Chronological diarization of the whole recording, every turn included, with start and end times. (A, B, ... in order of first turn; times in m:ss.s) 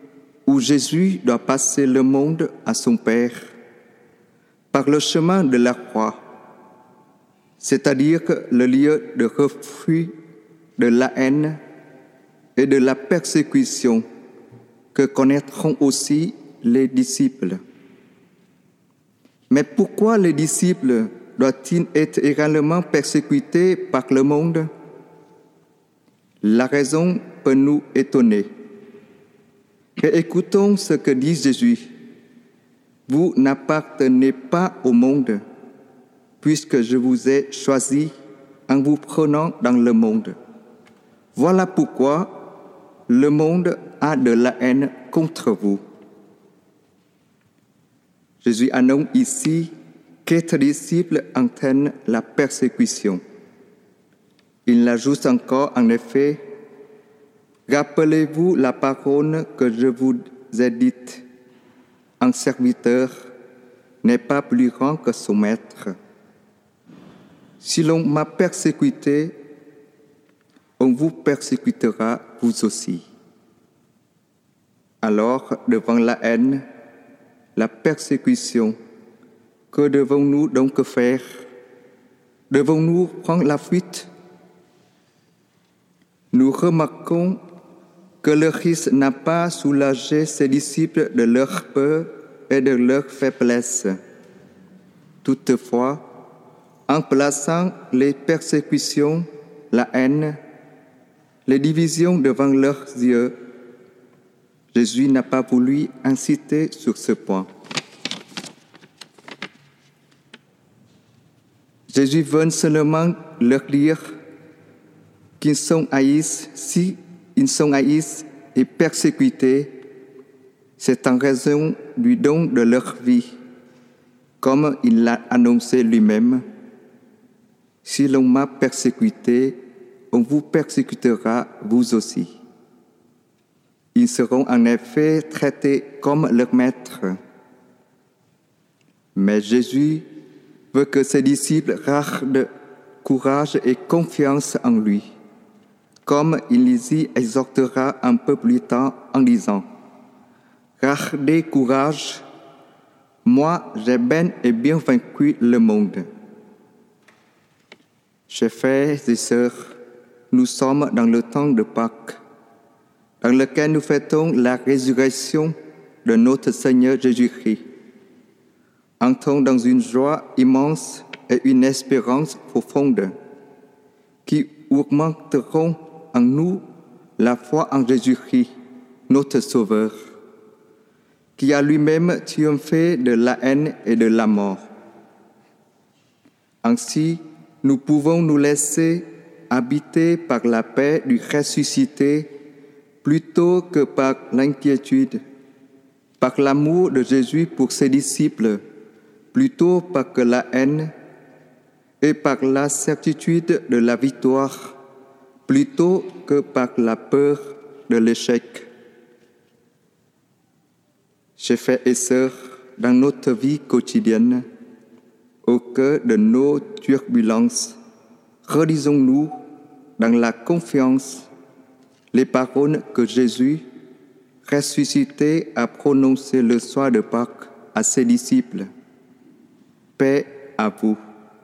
0:00.5-0:03.4 A
0:04.7-0:06.2 A
0:07.6-0:10.1 A
0:10.8-0:11.6 A
0:12.6-0:14.0 A
0:14.9-0:17.6 A
0:19.5-0:24.7 A
0:26.4-0:28.5 A
0:30.0-0:31.9 A
0:33.1-0:35.4 A
0:36.4-0:38.1 A
0:38.7-0:40.4 A
0:41.3-0:42.3 A
0:43.1-0:45.8 A
0:48.4-0:49.7 A
0:50.2-0:53.2 A
0:54.7-0:56.4 A
0:57.7-1:01.2 A
1:02.2-1:03.2 A
1:04.0-1:06.0 A
1:07.6-1:09.3 A
1:10.8-1:13.0 A
1:15.0-1:16.6 A
1:17.6-1:18.8 A
1:19.7-1:21.2 A
1:22.5-1:24.1 A
1:26.3-1:27.4 A
1:28.2-1:34.0 A
1:35.2-1:36.0 A
1:36.9-1:40.4 A
1:41.5-1:43.3 A
1:44.7-1:47.5 A
1:51.9-1:54.0 A
1:55.4-1:59.7 A
2:00.8-2:03.3 A
2:04.4-2:06.4 A
2:07.8-2:09.6 A
2:10.1-2:12.3 A
2:14.0-2:17.2 A
2:19.2-2:20.0 A
2:20.7-2:22.5 A
2:23.0-2:25.1 A
2:26.0-2:29.7 A
2:30.8-2:32.2 A
2:33.2-2:36.1 A
2:38.3-2:39.5 A
2:40.3-2:42.2 A
2:43.2-2:47.6 A
2:49.0-2:53.1 A
2:54.3-2:56.6 A
2:57.2-2:58.5 A
2:59.1-3:00.0 A
3:01.4-3:04.6 A
3:06.6-3:12.3 A
3:13.0-3:15.2 A
3:16.2-3:18.6 A
3:19.3-3:20.9 A
3:22.0-3:24.7 A
3:25.5-3:28.7 A
3:31.4-3:34.4 A
3:35.4-3:37.8 A
3:38.4-3:39.3 A
3:40.0-3:41.3 A
3:42.1-3:43.6 A
3:44.4-3:48.7 A
3:50.0-3:51.0 A